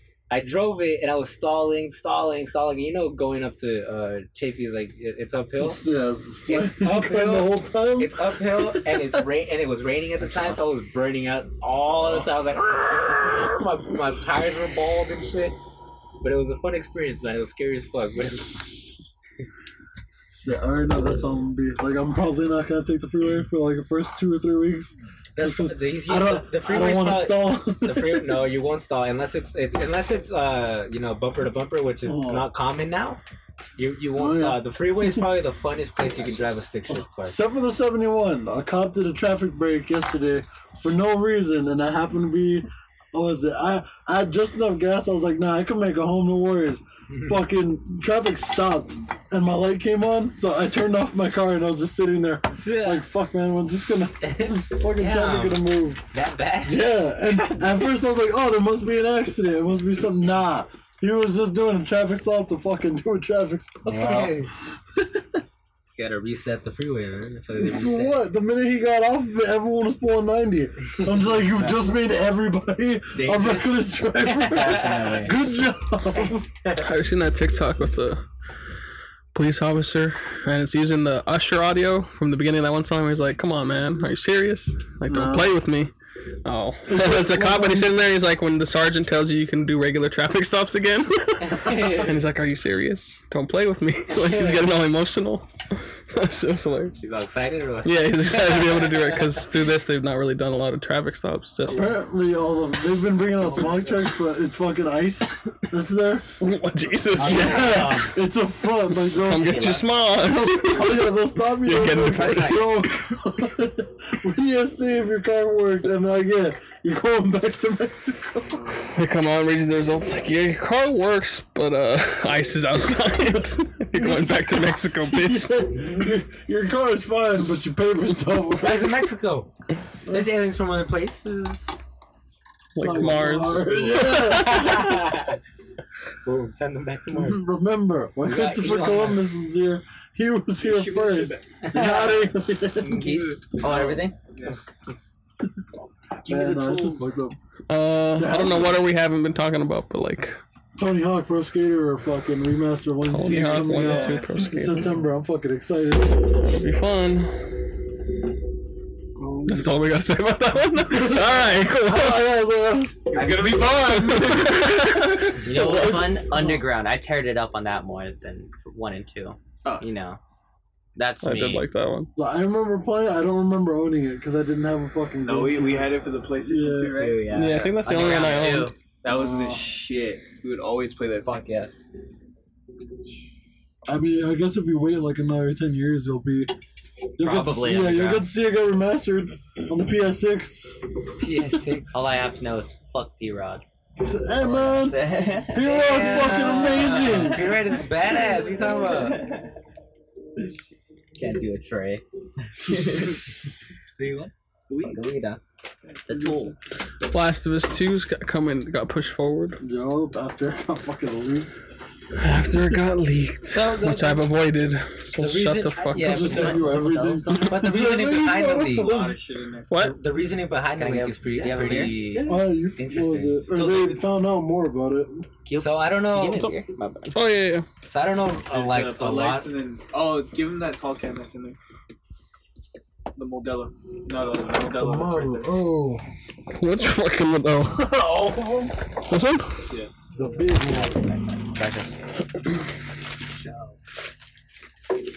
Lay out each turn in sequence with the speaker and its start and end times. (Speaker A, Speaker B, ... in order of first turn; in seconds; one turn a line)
Speaker A: 0.3-5.8
Speaker B: 5.6-8.2
Speaker A: 6.5-15.6
Speaker B: 8.8-9.1
Speaker A: 16.2-18.9
Speaker B: 20.3-28.4
Speaker A: 25.4-33.2
Speaker B: 32.1-32.5
Speaker A: 33.8-37.4
Speaker B: 34.2-34.6
Speaker B: 36.9-56.0
Speaker A: 52.5-53.0
Speaker A: 54.2-56.9
Speaker B: 56.6-65.4
Speaker A: 63.9-64.5
Speaker A: 66.0-68.2
Speaker B: 67.6-76.5
Speaker A: 73.2-75.4
Speaker C: 74.6-75.1
Speaker D: 76.7-78.2
Speaker D: 79.3-85.9
Speaker B: 85.1-85.5
Speaker D: 86.5-97.0
Speaker B: 86.9-87.9
Speaker A: 91.4-92.2
Speaker A: 94.1-94.7
Speaker A: 97.0-99.3
Speaker D: 97.8-101.9
Speaker B: 101.7-106.4
Speaker D: 106.4-108.1
Speaker B: 107.2-118.8
Speaker C: 107.2-108.2
Speaker D: 109.0-111.0
Speaker C: 109.3-109.9
Speaker D: 111.6-112.7
Speaker C: 111.7-112.7
Speaker D: 118.9-125.9
Speaker B: 124.0-129.1
Speaker A: 128.6-129.5
Speaker A: 130.1-131.9
Speaker D: 132.8-134.8
Speaker B: 132.8-134.9
Speaker A: 133.3-135.4
Speaker A: 136.2-137.5
Speaker B: 137.1-143.1
Speaker A: 138.2-139.3
Speaker E: 140.6-141.5
Speaker A: 141.6-143.4
Speaker E: 142.9-144.6
Speaker C: 143.6-144.2
Speaker C: 146.2-147.0
Speaker B: 146.2-147.4
Speaker D: 147.7-150.4
Speaker B: 148.2-148.9
Speaker B: 150.8-156.4
Speaker D: 153.1-154.9
Speaker E: 153.2-154.3
Speaker D: 156.4-157.5
Speaker B: 159.2-159.7
Speaker D: 159.5-162.2
Speaker B: 160.9-163.8
Speaker E: 163.1-165.4
Speaker D: 163.9-166.1
Speaker C: 165.4-170.2
Speaker B: 165.5-166.7
Speaker C: 171.0-171.7
Speaker D: 171.2-172.1
Speaker B: 172.2-177.0
Speaker E: 175.2-178.1
Speaker C: 176.9-178.7
Speaker D: 177.3-178.8
Speaker A: 177.9-178.7
Speaker E: 179.0-181.4
Speaker B: 179.1-179.6
Speaker C: 181.2-181.8
Speaker B: 183.9-186.5
Speaker B: 187.2-190.6
Speaker C: 187.2-188.3
Speaker A: 191.2-192.0
Speaker C: 191.9-193.6
Speaker B: 194.0-197.5
Speaker C: 194.4-199.5
Speaker A: 195.6-199.2
Speaker C: 201.2-205.4
Speaker B: 202.6-203.7
Speaker E: 204.7-205.0
Speaker E: 205.9-206.3
Speaker C: 206.1-206.6
Speaker D: 207.1-209.6
Speaker B: 209.6-211.6
Speaker D: 212.2-216.4
Speaker A: 213.5-214.3
Speaker A: 215.1-216.7
Speaker B: 216.0-219.3
Speaker C: 216.3-217.4
Speaker A: 217.3-219.0
Speaker E: 218.7-219.8
Speaker D: 219.7-220.0
Speaker A: 219.7-223.4
Speaker C: 220.8-222.0
Speaker E: 221.4-222.4
Speaker B: 222.2-225.3
Speaker E: 223.6-223.9
Speaker C: 223.6-223.9
Speaker C: 225.5-227.3
Speaker A: 225.6-226.5
Speaker D: 227.1-227.7
Speaker A: 227.8-229.5
Speaker E: 228.5-231.6
Speaker E: 233.2-235.5
Speaker B: 234.6-236.1
Speaker D: 236.5-238.4
Speaker D: 238.9-239.7
Speaker B: 240.1-241.1
Speaker C: 241.4-241.9